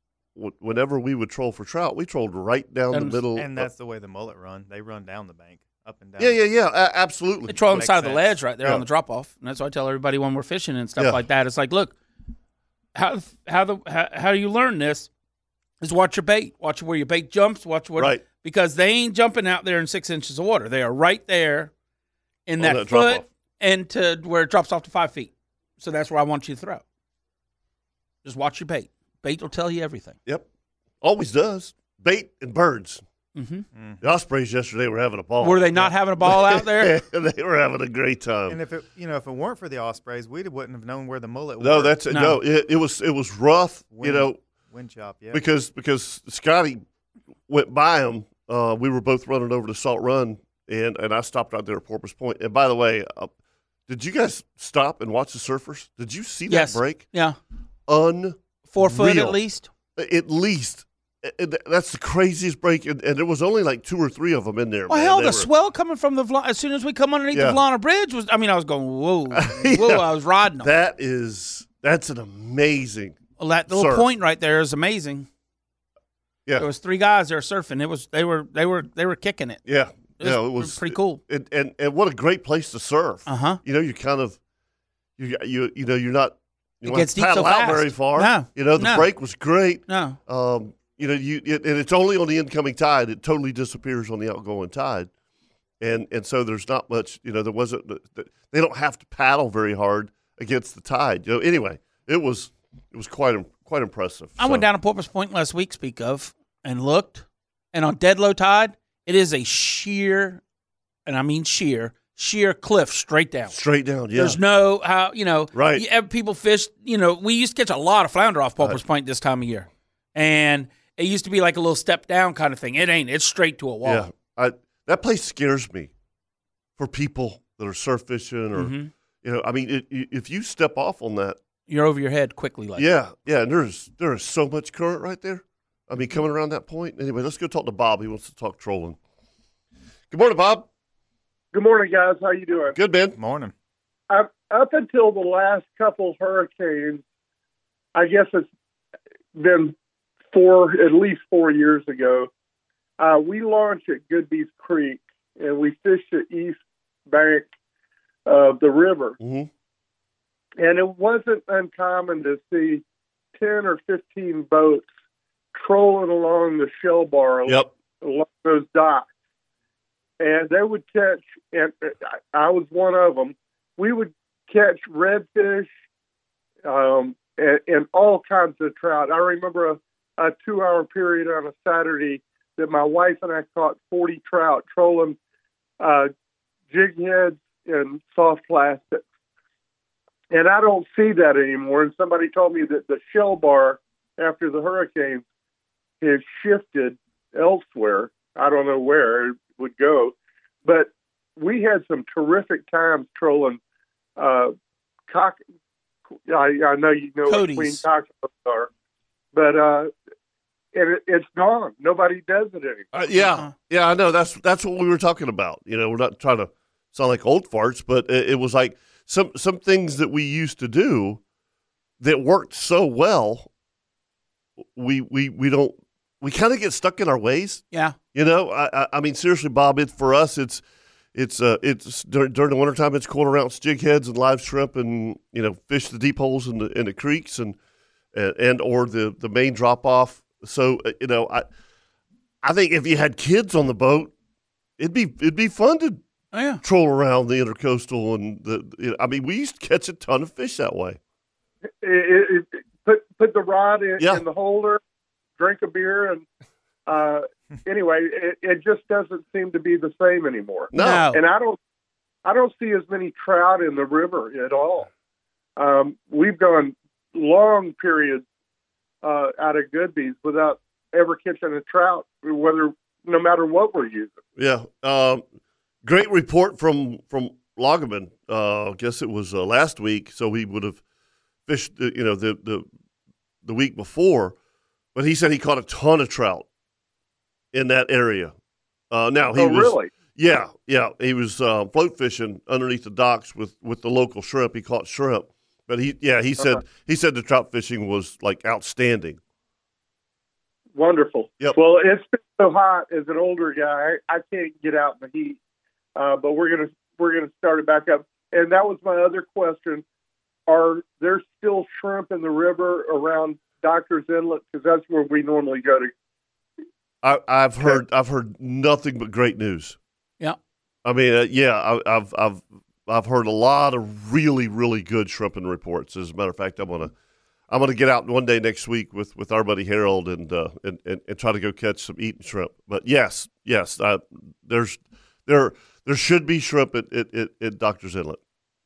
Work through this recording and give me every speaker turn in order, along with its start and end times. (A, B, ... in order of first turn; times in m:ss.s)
0:00.4-0:03.7 A
0:02.9-0:03.2 B
0:03.4-0:06.4 C
0:06.2-0:07.6 A
0:07.5-0:12.0 B
0:07.6-0:08.4 C
0:13.0-0:15.1 B
0:15.8-0:21.7 B
0:18.0-0:18.2 A
0:22.5-0:26.8 B
0:22.6-0:23.2 A
0:28.2-0:30.2 B
0:31.0-0:33.0 A
0:33.4-0:33.7 B
0:33.7-0:34.0 C
0:34.0-0:38.6 A
0:35.4-0:37.0 B
0:38.5-0:42.0 C
0:41.6-0:44.4 A
0:42.1-0:42.4 B
0:43.9-0:45.4 C
0:45.3-0:46.8 A
0:47.5-0:53.3 A
0:53.9-0:57.0 A
0:56.5-0:57.4 B
0:57.9-0:59.4 A
0:58.7-0:59.7 B
1:00.0-1:05.5 A
1:04.9-1:10.7 B
1:07.3-1:07.6 A
1:09.3-1:10.1 A
1:10.6-1:14.1 A
1:13.4-1:15.3 B
1:16.6-1:19.6 B
1:19.6-1:24.4 A
1:20.2-1:21.2 B
1:23.3-1:23.6 B
1:25.2-1:35.1 A
1:26.8-1:29.1 B
1:29.9-1:30.2 B
1:35.8-1:44.6 A
1:44.4-1:50.4 B
1:51.1-1:53.6 B
1:53.5-1:54.4 A
1:54.1-2:04.1 B
1:55.5-1:55.8 A
2:03.8-2:05.9 A
2:06.8-2:11.4 A
2:08.6-2:08.9 B
2:11.7-2:12.9 B
2:12.8-2:19.0 A
2:20.1-2:20.7 A
2:21.5-2:22.8 D
2:22.7-2:23.2 A
2:23.2-2:23.5 C
2:24.1-2:27.0 D
2:28.0-2:28.5 D
2:29.4-2:29.8 D
2:30.3-2:32.3 D
2:33.0-2:37.5 D
2:38.3-2:39.2 D
2:39.2-2:39.5 A
2:40.6-2:42.8 D
2:43.4-2:44.9 D
2:45.6-2:49.1 D
2:50.2-2:55.7 D
2:56.6-3:05.2 D
3:05.8-3:06.1 D
3:06.7-3:09.0 D
3:10.3-3:15.2 D
3:16.0-3:23.6 D
3:24.2-3:24.5 D
3:25.1-3:25.4 D
3:26.3-3:28.7 D
3:27.3-3:27.8 B
3:29.3-3:29.9 D
3:30.7-3:32.9 D
3:32.9-3:41.2 A
3:33.2-3:33.5 B
3:42.0-3:43.5 A
3:44.8-3:47.6 A
3:48.1-3:50.6 A
3:51.2-3:57.6 A
3:58.1-4:01.5 A
4:02.4-4:04.1 A
4:04.8-4:06.0 A
4:06.3-4:06.6 B
4:06.6-4:11.0 A
4:11.8-4:14.8 D
4:15.4-4:16.2 D
4:16.9-4:21.6 D
4:20.7-4:21.1 A
4:20.8-4:21.2 B
4:22.2-4:24.9 D
4:25.6-4:28.2 D
4:29.0-4:34.1 D
4:34.4-4:35.2 A
4:35.8-4:40.8 A
4:41.5-4:42.7 A
4:43.4-4:44.4 A
4:45.0-4:46.5 A
4:47.5-4:48.3 A
4:48.9-4:59.2 A
4:49.4-4:49.9 D
5:00.8-5:05.4 D
5:06.0-5:09.8 D
5:10.5-5:15.9 D
5:17.0-5:19.8 A
5:20.8-5:26.9 A
5:27.5-5:38.2 A